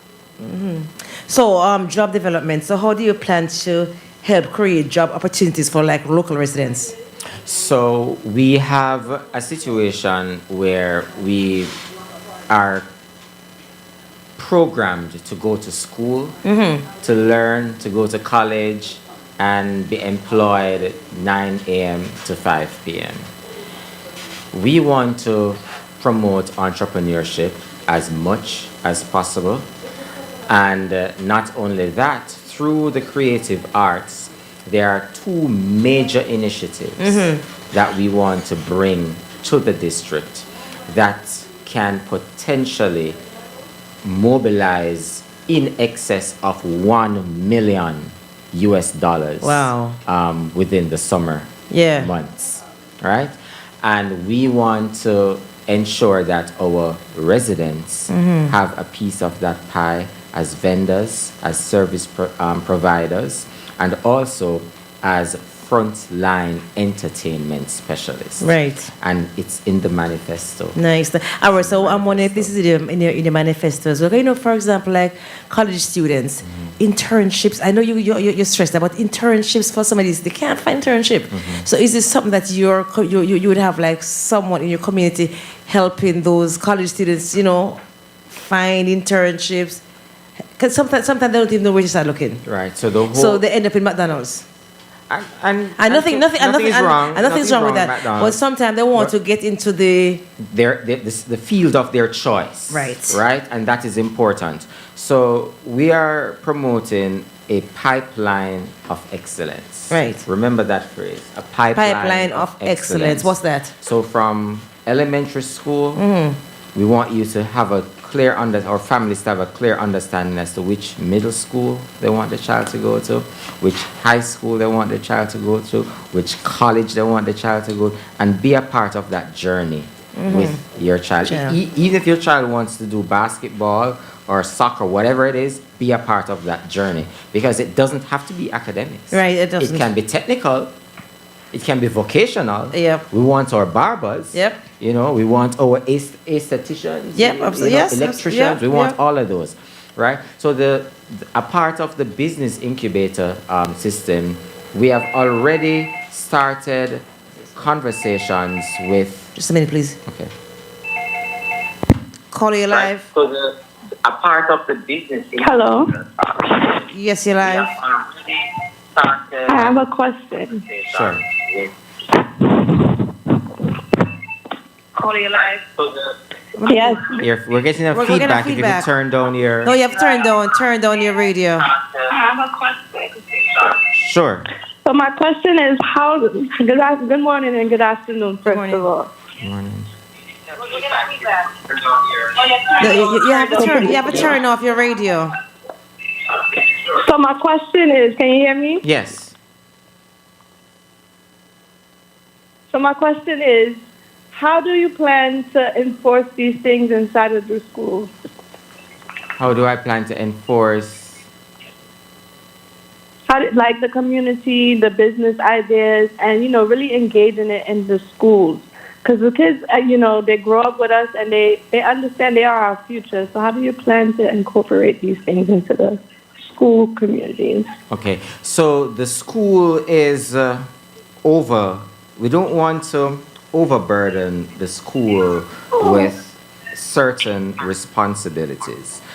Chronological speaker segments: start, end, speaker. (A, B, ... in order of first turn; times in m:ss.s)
0:00.4-0:06.9 A
0:07.4-0:11.8 B
0:12.5-0:12.8 B
0:14.4-0:16.4 B
0:16.4-0:16.8 A
0:17.0-0:23.3 B
0:24.5-0:29.7 B
0:30.5-0:43.2 B
0:37.0-0:37.4 A
0:44.0-1:10.8 B
0:49.4-0:50.0 A
0:51.7-0:52.1 A
0:58.1-0:58.5 A
1:08.4-1:08.9 A
1:10.8-1:29.8 A
1:11.5-1:12.5 B
1:16.4-1:16.7 B
1:21.3-1:21.6 B
1:30.6-1:32.4 A
1:32.4-1:33.4 B
1:33.1-1:34.4 A
1:35.1-1:38.4 B
1:35.8-1:40.2 A
1:40.4-1:56.0 B
1:42.7-1:43.2 A
1:49.9-1:50.2 A
1:51.7-1:53.7 A
1:56.0-1:56.4 A
1:56.7-2:20.7 B
2:10.2-2:10.6 A
2:11.2-2:11.6 A
2:19.1-2:19.9 A
2:21.5-2:39.4 B
2:22.7-2:23.0 A
2:24.3-2:24.6 A
2:27.2-2:29.0 A
2:39.4-2:40.0 A
2:40.0-2:40.3 B
2:42.3-2:43.1 A
2:42.7-2:46.7 C
2:45.4-2:45.9 D
2:46.9-2:47.8 A
2:47.4-2:48.4 C
2:49.0-2:49.8 C
2:49.5-2:50.7 D
2:50.6-2:51.7 C
2:50.9-2:51.2 B
2:55.0-2:55.6 D
2:55.8-2:56.1 C
2:56.6-2:57.1 A
2:56.6-2:57.2 D
2:57.2-2:59.7 B
2:57.9-2:58.9 A
2:59.6-3:01.7 A
3:02.0-3:03.7 D
3:03.9-3:04.5 B
3:04.8-3:09.1 D
3:08.4-3:08.9 A
3:09.4-3:09.9 B
3:10.7-3:12.2 C
3:10.9-3:11.2 D
3:12.4-3:14.4 D
3:12.8-3:15.3 A
3:16.7-3:18.8 D
3:18.8-3:19.3 B
3:22.7-3:23.8 D
3:24.3-3:28.1 D
3:29.4-3:31.3 B
3:33.3-3:47.7 D
3:47.9-3:50.7 B
3:51.2-3:59.0 B
3:55.8-3:56.1 D